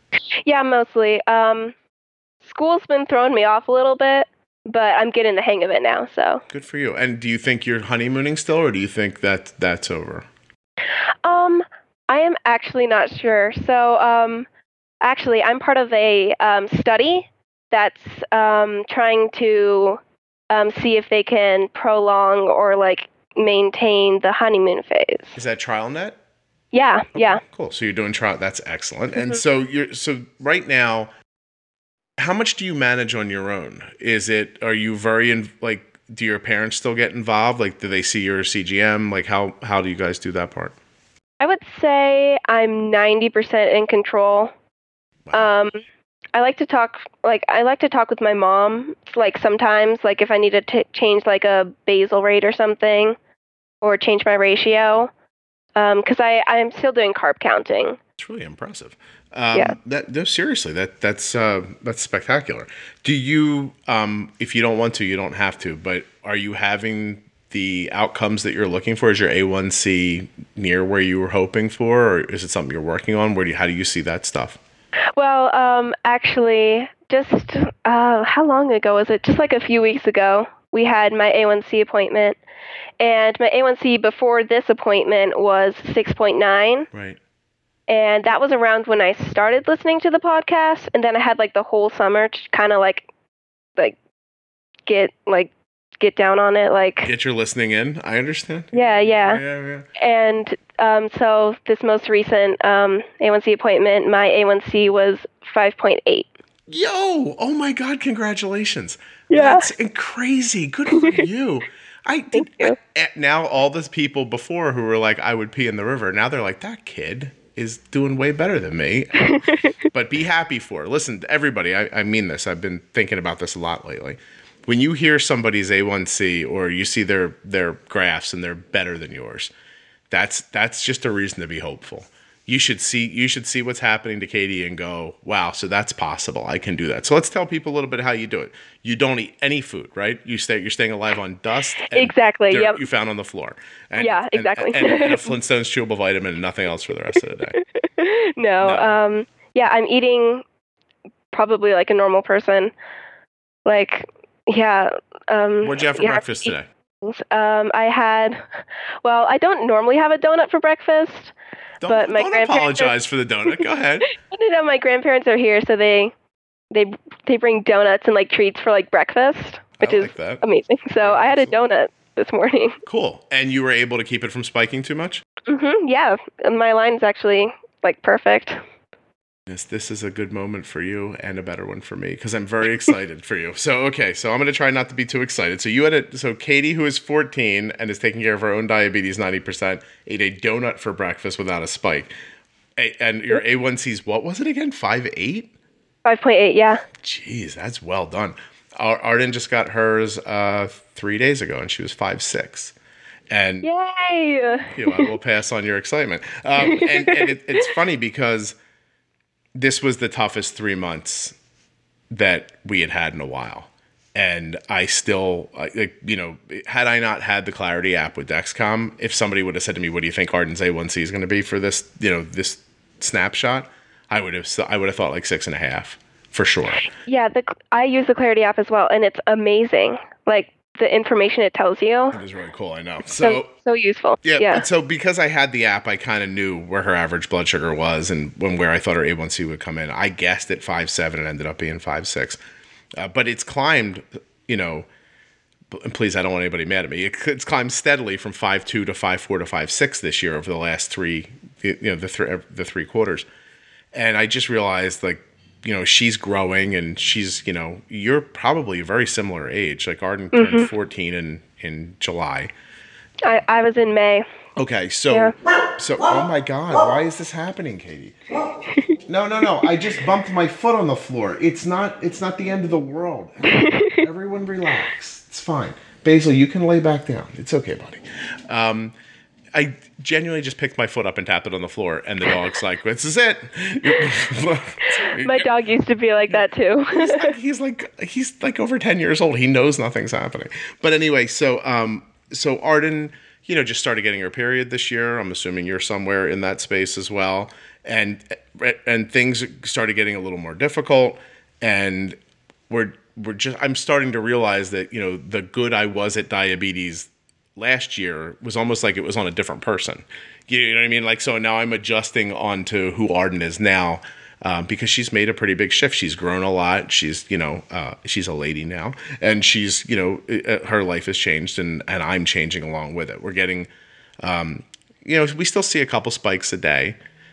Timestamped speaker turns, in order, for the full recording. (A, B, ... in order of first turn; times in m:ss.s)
0:00.4-0:01.8 A
0:02.4-0:06.4 A
0:06.5-0:10.3 B
0:11.2-0:14.5 A
0:15.0-0:25.4 A
0:25.4-0:26.2 B
0:26.7-0:27.4 A
0:27.1-0:31.1 B
0:32.2-0:40.8 B
0:41.4-0:44.5 A
0:45.3-0:45.8 A
0:46.3-0:53.2 A
0:53.8-0:55.1 A
0:55.8-0:58.0 A
0:58.2-1:14.6 B
1:15.2-1:22.4 A
1:23.0-1:26.9 A
1:26.9-1:27.2 B
1:27.9-1:33.1 A
1:34.9-1:37.1 A
1:37.0-1:39.9 B
1:38.7-1:39.4 A
1:40.0-1:46.3 A
1:46.7-2:09.5 B
1:49.3-1:49.7 A
1:50.9-1:51.2 A
1:52.3-1:52.8 A
1:59.2-1:59.7 A
2:10.1-2:27.6 B
2:21.8-2:22.8 A
2:24.0-2:25.3 A
2:27.6-2:30.4 A
2:28.6-2:29.0 B
2:31.3-2:32.7 A
2:33.6-2:38.4 A
2:35.6-2:36.7 B
2:39.0-2:41.3 A
2:41.8-2:44.1 B
2:41.9-2:42.9 A
2:43.5-2:46.1 A
2:46.7-2:52.8 A
2:49.8-2:50.4 B
2:51.0-2:51.6 B
2:52.8-2:55.2 B
2:55.5-2:58.6 A
2:59.5-3:12.1 B
3:12.8-3:15.5 B
3:16.0-3:16.8 A
3:17.0-3:22.8 B
3:23.3-3:23.7 B
3:23.6-3:25.1 A
3:24.7-3:28.6 B
3:26.6-3:27.3 A
3:29.6-3:31.4 B
3:32.1-3:46.9 B
3:46.8-3:52.2 A
3:52.1-3:53.5 B
3:53.2-3:54.7 A
3:54.2-4:02.4 B
4:03.0-4:04.9 B
4:05.7-4:13.2 B
4:13.9-4:22.5 B
4:20.3-4:20.7 A
4:23.2-4:24.2 A
4:24.6-4:28.2 B
4:29.1-4:38.9 B
4:33.5-4:34.0 A
4:39.5-4:45.5 B
4:45.1-4:47.3 A
4:46.3-5:02.2 B
5:02.7-5:23.7 B
5:24.2-5:27.0 B